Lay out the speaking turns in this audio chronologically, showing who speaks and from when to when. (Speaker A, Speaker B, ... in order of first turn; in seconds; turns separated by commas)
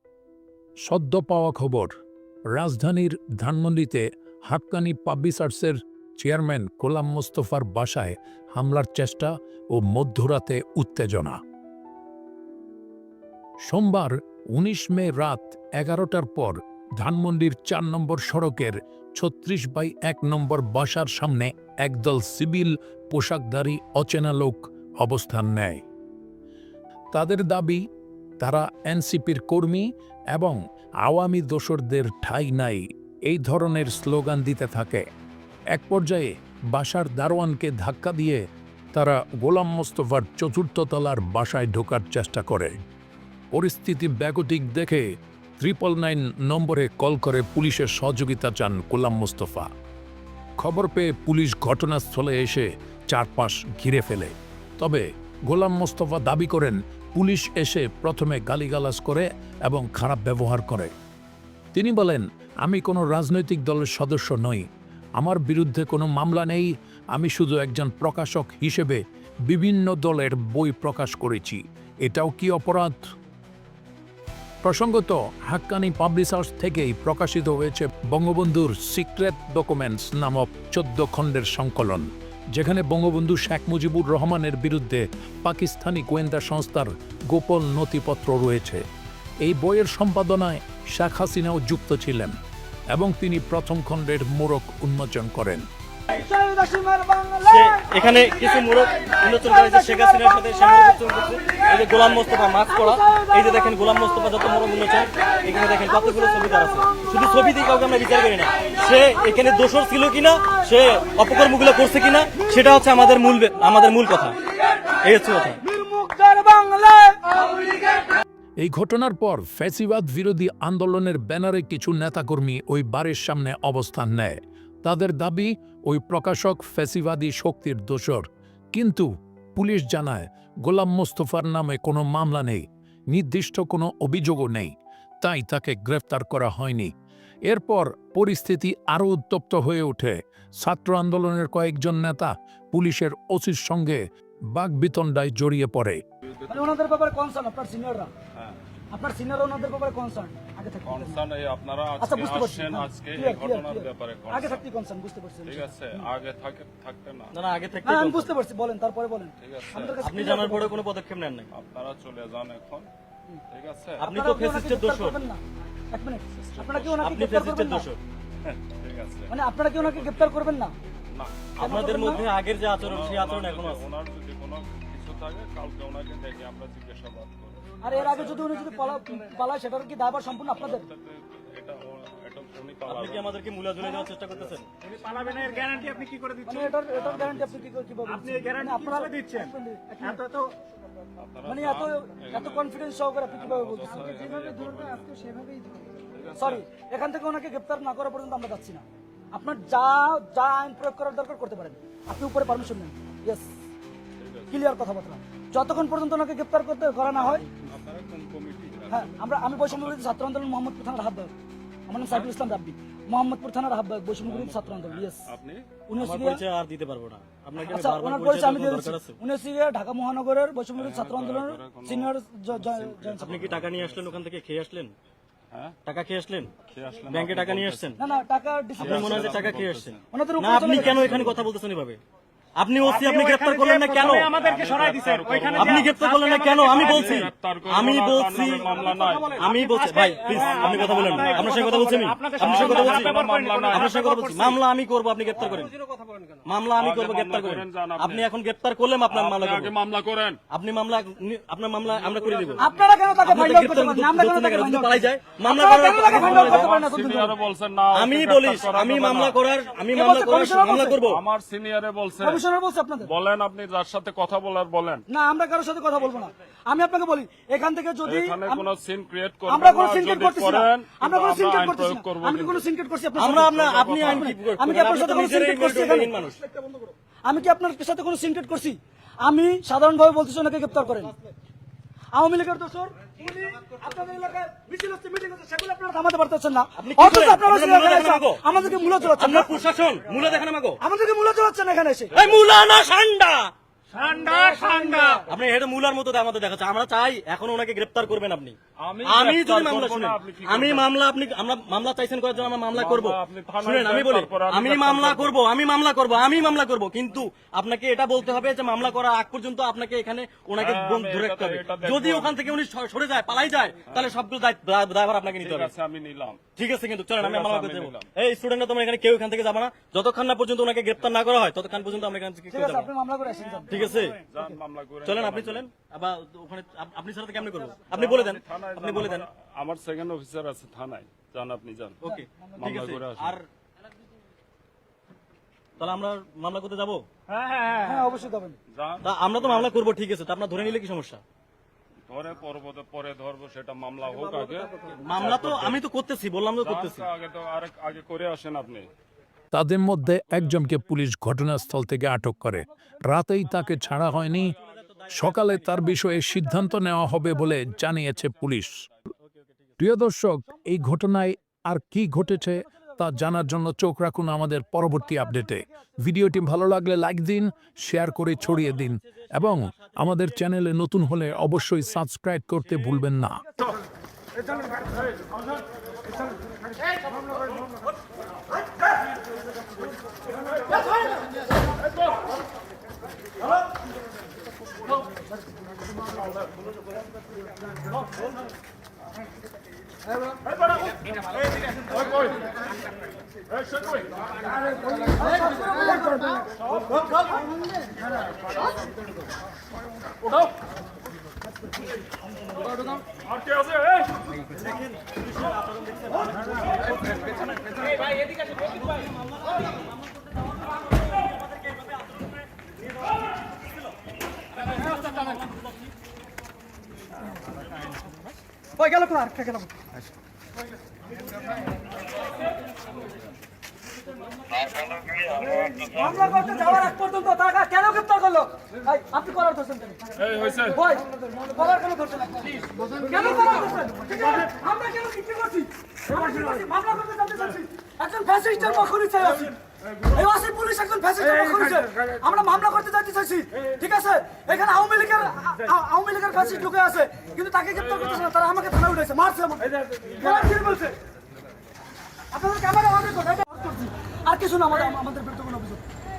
Speaker A: 0.9-1.9, Speaker A: 2.5-11.4, Speaker A: 13.7-25.8, Speaker A: 27.1-27.8, Speaker A: 28.4-35.0, Speaker A: 35.7-38.4, Speaker A: 38.9-42.7, Speaker A: 43.5-45.1, Speaker A: 45.6-49.7, Speaker A: 50.6-60.9, Speaker A: 61.7-64.6, Speaker A: 65.2-73.0, Speaker A: 74.6-88.8, Speaker A: 89.4-92.3, Speaker A: 92.9-95.6, Speaker B: 96.1-109.7, Speaker C: 97.4-114.3, Speaker B: 110.4-111.5, Speaker B: 112.3-113.9, Speaker C: 115.0-115.6, Speaker B: 115.6-118.0, Speaker A: 118.6-134.7, Speaker A: 135.2-136.9, Speaker A: 137.5-144.0, Speaker A: 144.5-146.0, Speaker D: 146.3-146.7, Speaker B: 146.5-148.1, Speaker B: 148.9-151.2, Speaker D: 150.8-154.6, Speaker B: 152.0-156.1, Speaker D: 155.4-157.3, Speaker C: 157.3-158.3, Speaker B: 157.8-160.8, Speaker D: 159.4-160.0, Speaker C: 160.0-161.5, Speaker D: 161.5-162.9, Speaker D: 163.5-164.0, Speaker C: 164.0-165.2, Speaker B: 164.0-167.9, Speaker D: 166.3-166.8, Speaker C: 166.7-168.0, Speaker D: 168.4-170.3, Speaker B: 169.3-170.7, Speaker D: 171.1-178.3, Speaker C: 171.6-173.8, Speaker B: 171.6-172.2, Speaker B: 177.8-180.9, Speaker D: 180.6-183.4, Speaker C: 182.8-184.7, Speaker B: 183.8-184.1, Speaker E: 184.8-186.7, Speaker B: 186.4-190.2, Speaker D: 186.9-187.7, Speaker E: 188.1-190.5, Speaker D: 191.2-192.7, Speaker B: 191.4-203.5, Speaker D: 193.2-195.1, Speaker D: 196.1-196.6, Speaker D: 204.2-204.6, Speaker B: 204.5-207.4, Speaker D: 207.2-210.1, Speaker B: 208.9-211.3, Speaker B: 211.9-215.2, Speaker D: 212.0-212.3, Speaker D: 214.2-215.7, Speaker B: 215.9-216.4, Speaker C: 216.0-219.2, Speaker B: 217.6-223.6, Speaker D: 220.8-224.2, Speaker C: 223.2-224.9, Speaker D: 225.5-225.8, Speaker C: 225.8-226.5, Speaker D: 226.6-227.9, Speaker C: 227.1-228.0, Speaker B: 228.0-229.4, Speaker C: 228.8-232.0, Speaker D: 228.8-230.0, Speaker B: 230.1-231.2, Speaker D: 230.6-231.4, Speaker C: 232.6-234.4, Speaker E: 232.8-237.3, Speaker D: 234.2-236.0, Speaker C: 235.5-245.7, Speaker D: 236.6-239.7, Speaker E: 238.2-244.7, Speaker D: 240.2-241.6, Speaker D: 242.3-244.6, Speaker E: 245.3-246.4, Speaker C: 246.4-249.7, Speaker D: 246.7-248.3, Speaker D: 249.1-250.4, Speaker C: 250.5-252.7, Speaker D: 252.4-252.9, Speaker B: 252.6-257.4, Speaker C: 253.2-256.7, Speaker D: 256.0-259.4, Speaker C: 257.9-261.2, Speaker B: 259.9-261.0, Speaker D: 261.0-262.4, Speaker B: 262.2-263.1, Speaker D: 263.0-265.0, Speaker B: 265.1-268.6, Speaker D: 268.0-272.6, Speaker B: 269.5-276.2, Speaker C: 273.2-276.4, Speaker D: 273.3-274.3, Speaker B: 277.2-281.1, Speaker B: 282.1-289.5, Speaker C: 286.8-288.4, Speaker C: 289.1-290.8, Speaker B: 290.8-292.2, Speaker D: 292.1-292.4, Speaker C: 292.1-293.5, Speaker E: 294.0-295.2, Speaker B: 294.3-295.2, Speaker C: 295.2-315.7, Speaker D: 298.8-300.9, Speaker D: 302.4-305.4, Speaker D: 310.6-312.5, Speaker D: 313.9-314.1, Speaker D: 315.2-316.4, Speaker C: 316.5-322.9, Speaker D: 317.2-318.1, Speaker B: 322.5-324.0, Speaker C: 323.7-324.2, Speaker D: 324.1-325.7, Speaker C: 325.0-329.3, Speaker D: 327.9-332.0, Speaker C: 332.0-333.4, Speaker D: 332.6-333.4, Speaker C: 335.8-337.1, Speaker E: 337.3-338.0, Speaker B: 337.8-338.6, Speaker D: 338.7-339.8, Speaker C: 339.0-341.2, Speaker D: 342.1-345.8, Speaker C: 344.9-347.0, Speaker D: 346.6-348.9, Speaker A: 349.5-354.5, Speaker C: 354.1-356.0, Speaker A: 355.1-358.9, Speaker D: 357.9-358.8, Speaker C: 359.2-359.8, Speaker A: 359.8-373.4, Speaker C: 368.7-370.1, Speaker B: 395.2-396.4, Speaker C: 405.1-406.1, Speaker B: 418.8-419.7, Speaker B: 425.7-430.0, Speaker D: 430.2-430.8, Speaker B: 430.6-439.5, Speaker B: 440.1-450.9, Speaker B: 452.3-455.8